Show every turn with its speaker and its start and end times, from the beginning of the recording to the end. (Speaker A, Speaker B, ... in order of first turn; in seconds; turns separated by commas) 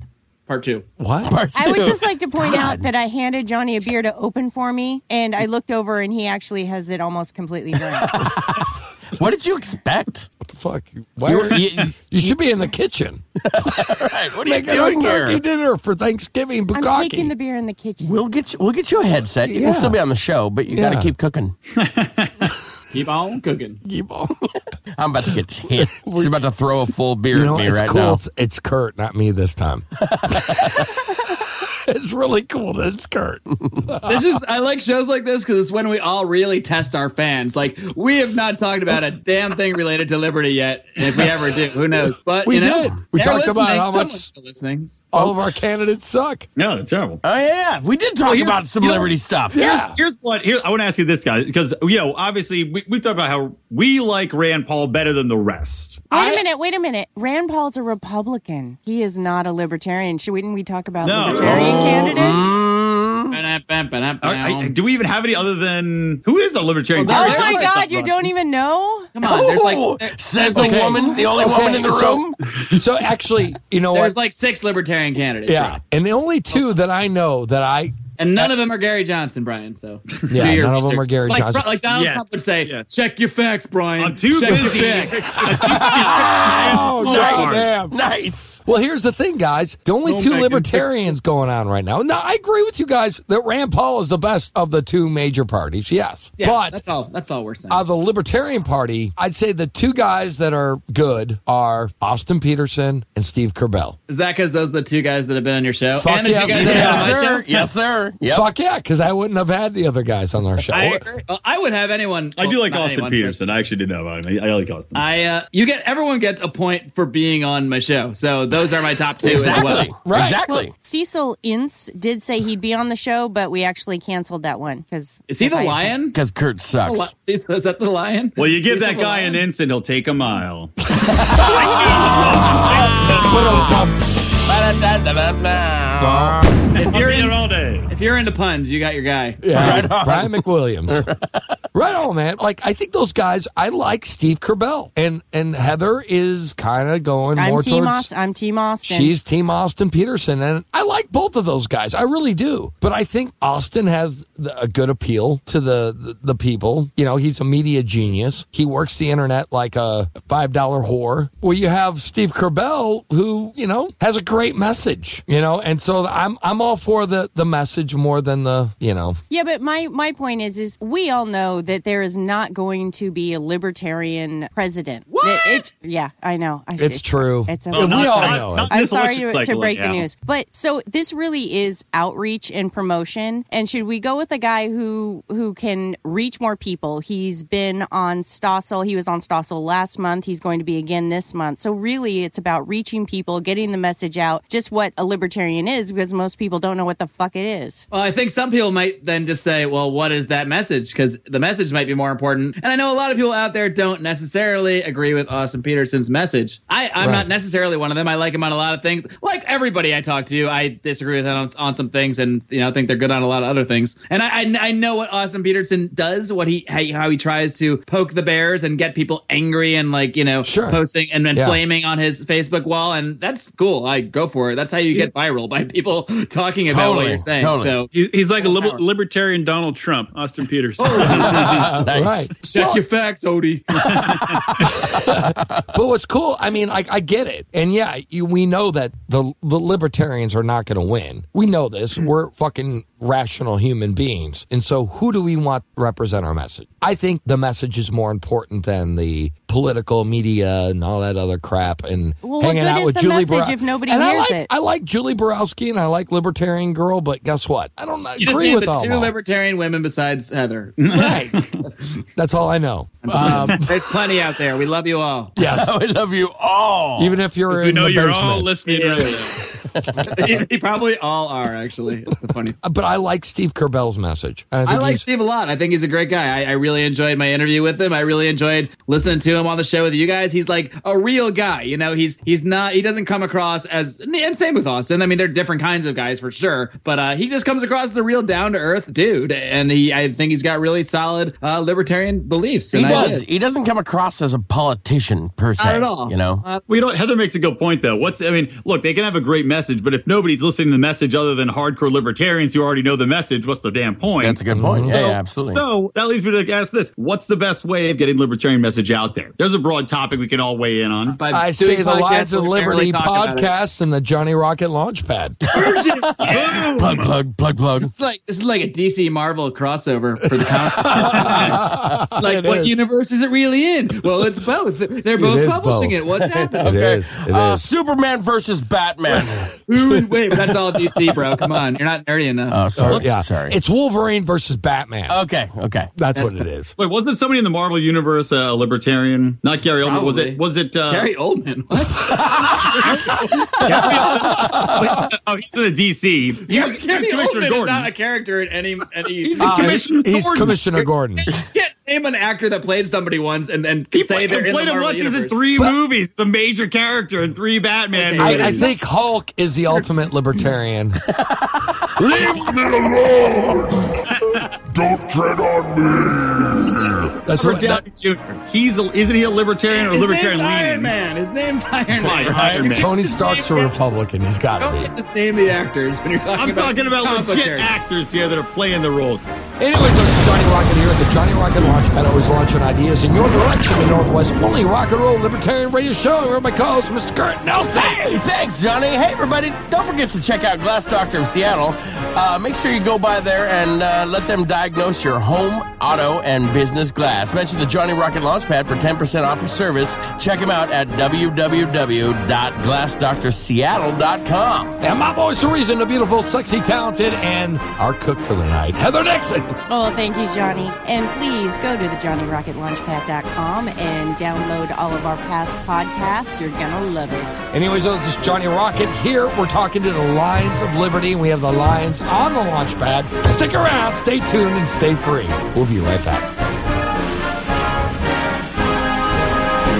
Speaker A: 0.5-0.8, Speaker B: 1.0-1.3, Speaker C: 1.2-2.9, Speaker D: 1.5-8.4, Speaker C: 7.9-10.3, Speaker B: 10.4-17.3, Speaker C: 11.2-12.3, Speaker C: 13.4-15.4, Speaker D: 16.7-18.2, Speaker C: 18.0-21.5, Speaker B: 19.4-20.0, Speaker B: 20.7-21.1, Speaker E: 21.8-22.3, Speaker A: 22.9-23.8, Speaker B: 23.8-24.4, Speaker C: 25.0-28.2, Speaker B: 25.8-26.3, Speaker B: 27.3-34.3, Speaker C: 30.0-30.9, Speaker A: 34.0-45.1, Speaker B: 42.4-44.3, Speaker B: 45.1-46.5, Speaker E: 46.5-47.2, Speaker C: 47.2-49.6, Speaker E: 48.2-56.0, Speaker B: 49.5-50.0, Speaker D: 56.1-62.6, Speaker A: 56.1-56.4, Speaker E: 61.0-62.1, Speaker C: 61.3-63.4, Speaker A: 63.3-64.7, Speaker E: 64.2-68.2, Speaker A: 66.9-67.7, Speaker D: 67.0-69.1, Speaker A: 69.1-71.2, Speaker C: 69.2-72.4, Speaker B: 70.5-74.2, Speaker A: 73.9-75.8, Speaker B: 75.5-78.5, Speaker A: 78.2-85.4, Speaker B: 80.3-81.7, Speaker F: 81.8-82.9, Speaker E: 84.0-87.8, Speaker B: 85.3-87.9, Speaker C: 85.6-88.6, Speaker B: 88.6-96.8, Speaker A: 90.0-90.9, Speaker A: 96.4-97.8, Speaker B: 97.7-104.0, Speaker A: 104.1-107.5, Speaker B: 106.0-107.2, Speaker C: 106.4-108.5, Speaker B: 108.3-111.0, Speaker A: 110.7-113.4, Speaker E: 112.4-115.0, Speaker A: 114.9-119.9, Speaker C: 119.2-120.7, Speaker B: 120.0-120.5, Speaker D: 120.4-126.0, Speaker A: 125.3-126.2, Speaker C: 126.1-127.1, Speaker A: 126.8-129.4, Speaker E: 128.4-133.6, Speaker C: 131.2-133.8, Speaker B: 131.3-134.6, Speaker C: 134.4-136.4, Speaker B: 136.0-136.6, Speaker E: 136.7-137.9, Speaker A: 136.8-139.9, Speaker B: 139.4-141.1, Speaker C: 139.5-141.2, Speaker B: 141.7-148.1, Speaker D: 147.3-149.1, Speaker B: 148.8-169.2, Speaker D: 169.3-197.8, Speaker A: 175.1-175.7, Speaker B: 176.8-178.7, Speaker E: 177.7-180.1, Speaker A: 197.9-228.8, Speaker B: 207.0-207.3, Speaker B: 220.4-220.8, Speaker B: 221.3-221.6, Speaker C: 226.7-227.8, Speaker F: 227.9-231.5, Speaker A: 230.8-231.7, Speaker C: 231.1-232.3, Speaker B: 231.2-232.8, Speaker A: 232.4-234.3, Speaker B: 234.7-259.1, Speaker C: 235.0-235.6, Speaker D: 252.2-254.5, Speaker A: 258.2-260.8, Speaker E: 260.8-261.6, Speaker B: 260.9-261.5, Speaker B: 262.1-263.8, Speaker A: 263.0-265.3, Speaker B: 265.4-265.8, Speaker C: 265.4-267.2, Speaker B: 267.0-268.5, Speaker F: 267.5-269.4, Speaker A: 268.6-269.2, Speaker C: 269.8-270.3, Speaker A: 270.0-272.6, Speaker B: 272.6-275.1, Speaker A: 274.6-293.2, Speaker C: 292.7-296.4, Speaker A: 295.6-296.7, Speaker E: 296.7-311.2, Speaker C: 304.2-305.6, Speaker B: 304.5-304.9, Speaker A: 311.1-313.5, Speaker B: 311.3-315.4, Speaker A: 315.5-316.7, Speaker C: 315.5-317.9, Speaker E: 316.2-317.1, Speaker A: 317.8-326.6, Speaker B: 320.5-322.7, Speaker B: 325.1-326.0, Speaker C: 326.4-329.5, Speaker B: 326.6-327.6, Speaker B: 329.1-329.4, Speaker A: 329.7-332.6, Speaker C: 332.5-333.6, Speaker B: 332.8-335.2, Speaker C: 335.1-335.9, Speaker B: 335.9-336.7, Speaker A: 336.1-336.4, Speaker E: 336.8-341.1, Speaker A: 339.8-344.6, Speaker E: 342.8-347.9, Speaker C: 343.6-343.9, Speaker A: 346.4-349.8, Speaker E: 349.2-350.6, Speaker B: 349.4-351.3, Speaker A: 351.2-355.4, Speaker E: 353.9-358.7, Speaker A: 357.9-358.7, Speaker B: 358.2-361.0, Speaker B: 362.0-362.4, Speaker G: 362.0-367.1, Speaker B: 367.2-367.8, Speaker E: 367.2-370.9, Speaker A: 369.7-373.8, Speaker E: 372.0-372.9, Speaker C: 372.3-372.7, Speaker B: 372.7-374.9, Speaker A: 374.6-377.7, Speaker E: 376.3-379.4, Speaker B: 379.6-388.2, Speaker C: 387.7-404.8, Speaker B: 404.8-409.6, Speaker D: 409.7-417.4, Speaker B: 417.5-426.3